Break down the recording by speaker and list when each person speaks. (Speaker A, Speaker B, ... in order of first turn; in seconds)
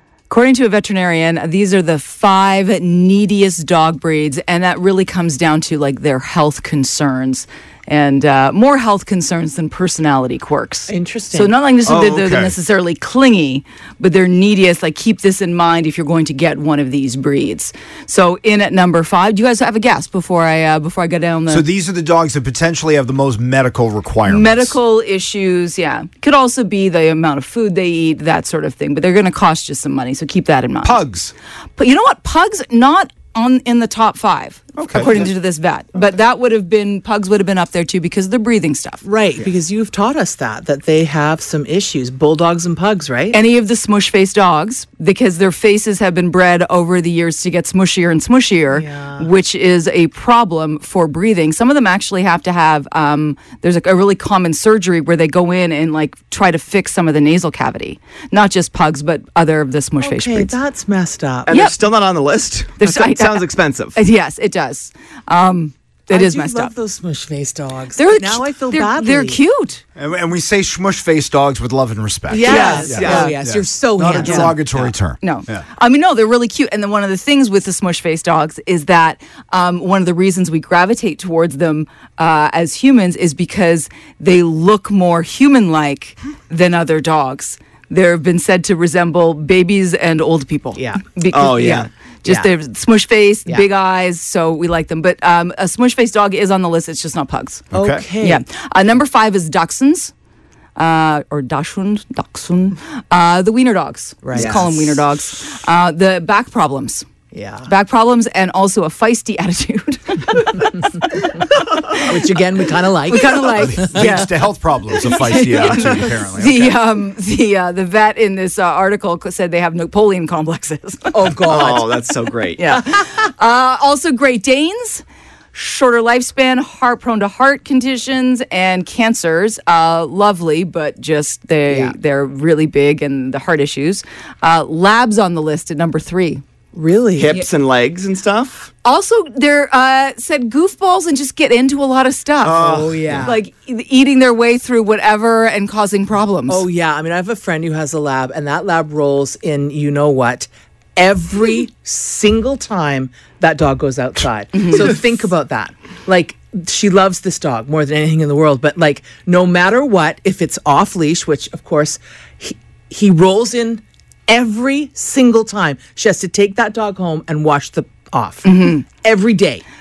Speaker A: 0.3-21.6, 24.2-31.0, 31.8-39.0, 43.3-60.6, 61.5-61.7, 62.8-66.7, 68.0-69.8, 72.4-73.3, 74.2-74.5, 75.2-97.7, 98.2-100.1, 100.8-107.1, 107.6-111.4, 113.1-114.3, 115.0-121.2, 122.6-136.4, 138.8-146.6, 154.5-154.9, 168.4-168.9
Speaker B: 10.9-11.6, 39.0-43.4, 48.7-49.3, 60.0-61.5, 66.1-69.4, 72.3-74.6, 90.7-91.1, 92.2-92.5, 97.7-98.4, 104.2-104.6, 107.3-107.7, 112.0-114.2, 115.3-115.9, 121.1-121.9, 131.7-131.9, 136.7-137.4, 142.5-143.4, 146.5-169.6
Speaker C: 11.8-12.5, 21.5-24.8, 30.8-31.3, 34.8-35.3, 70.0-75.6, 97.7-98.0, 113.5-116.8
Speaker D: 61.5-64.0, 72.4-73.3, 91.3-91.9, 104.3-104.7, 121.5-122.6, 137.2-138.7, 142.4-143.3